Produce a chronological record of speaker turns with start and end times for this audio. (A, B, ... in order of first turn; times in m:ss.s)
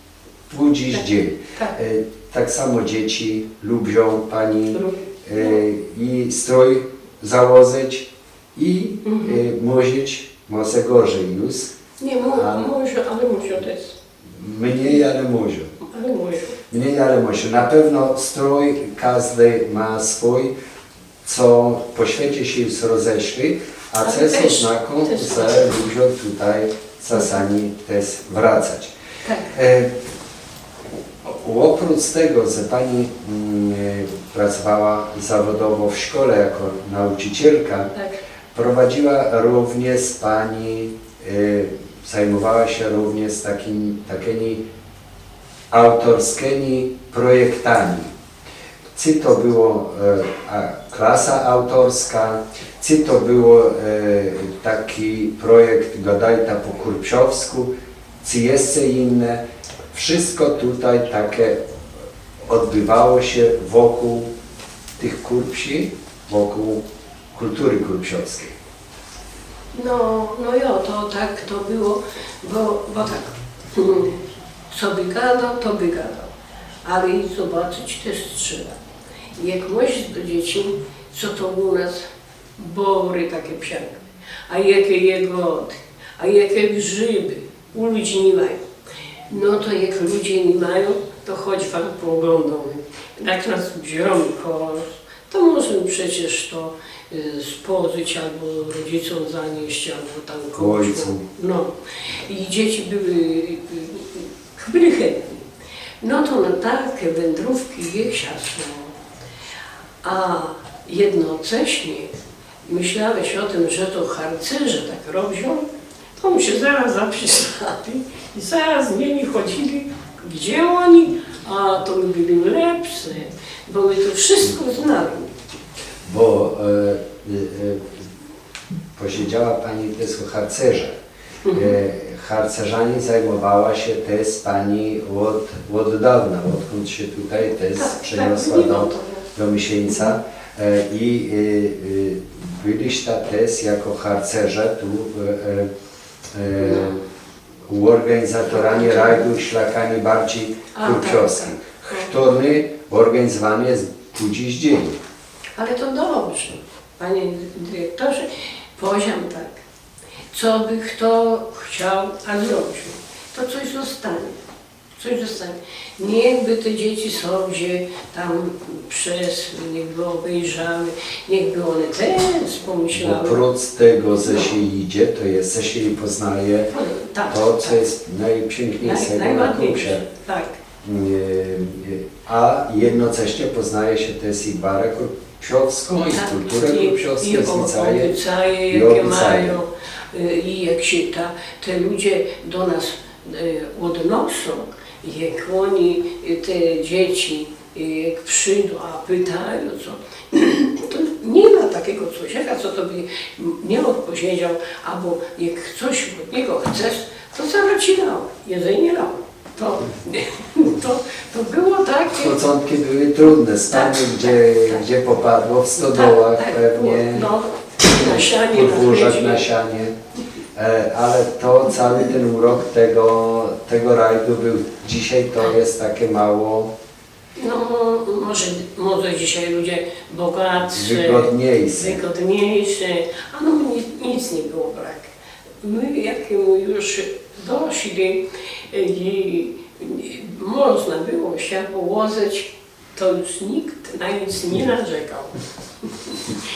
0:00.5-0:11.7 A
0:04.7-0:05.0 B
0:09.0-0:09.4 B
0:12.0-0:14.0 B
0:12.3-0:12.7 A
0:14.4-0:15.8 A
0:15.8-0:16.6 B
0:16.7-0:20.5 A
0:21.2-0:28.9 A
0:24.0-0:25.7 B
0:29.2-0:29.5 B
0:29.5-0:30.0 A
0:31.2-0:37.9 A
0:38.5-0:44.6 A
0:45.7-0:48.1 A
0:48.9-1:01.6 A
1:02.5-1:04.3 A
1:05.0-1:06.8 A
1:07.3-1:08.6 A
1:09.7-1:14.2 B
1:14.7-1:16.3 B
1:16.8-1:18.8 B
1:19.3-1:22.0 B
1:22.6-1:28.6 B
1:29.3-1:41.7 B
1:40.6-1:41.2 A
1:42.2-1:45.4 B
1:46.0-1:48.9 B
1:50.0-1:52.1 B
1:52.6-1:55.6 B
1:56.2-2:05.3 B
2:06.0-2:08.0 A
2:08.9-2:11.0 A
2:11.4-2:11.8 B
2:11.5-2:25.7 A
2:17.7-2:19.3 B
2:26.3-2:27.0 A
2:26.6-2:26.9 B
2:27.7-2:35.0 A
2:28.5-2:29.2 B
2:30.7-2:32.1 B
2:35.6-2:39.6 B
2:40.3-2:44.4 B
2:45.0-2:53.4 B
2:52.9-2:56.7 A
2:54.2-2:54.5 B
2:56.7-2:57.8 B
2:57.3-3:00.0 A
2:58.8-3:00.6 B
3:00.8-3:08.2 A
3:06.1-3:32.4 B
3:08.7-3:09.6 A
3:32.1-3:37.3 A
3:33.7-3:34.8 B
3:35.8-3:39.4 B
3:37.9-3:39.9 A
3:40.5-3:46.7 A
3:47.4-4:06.4 B
3:50.7-3:52.0 A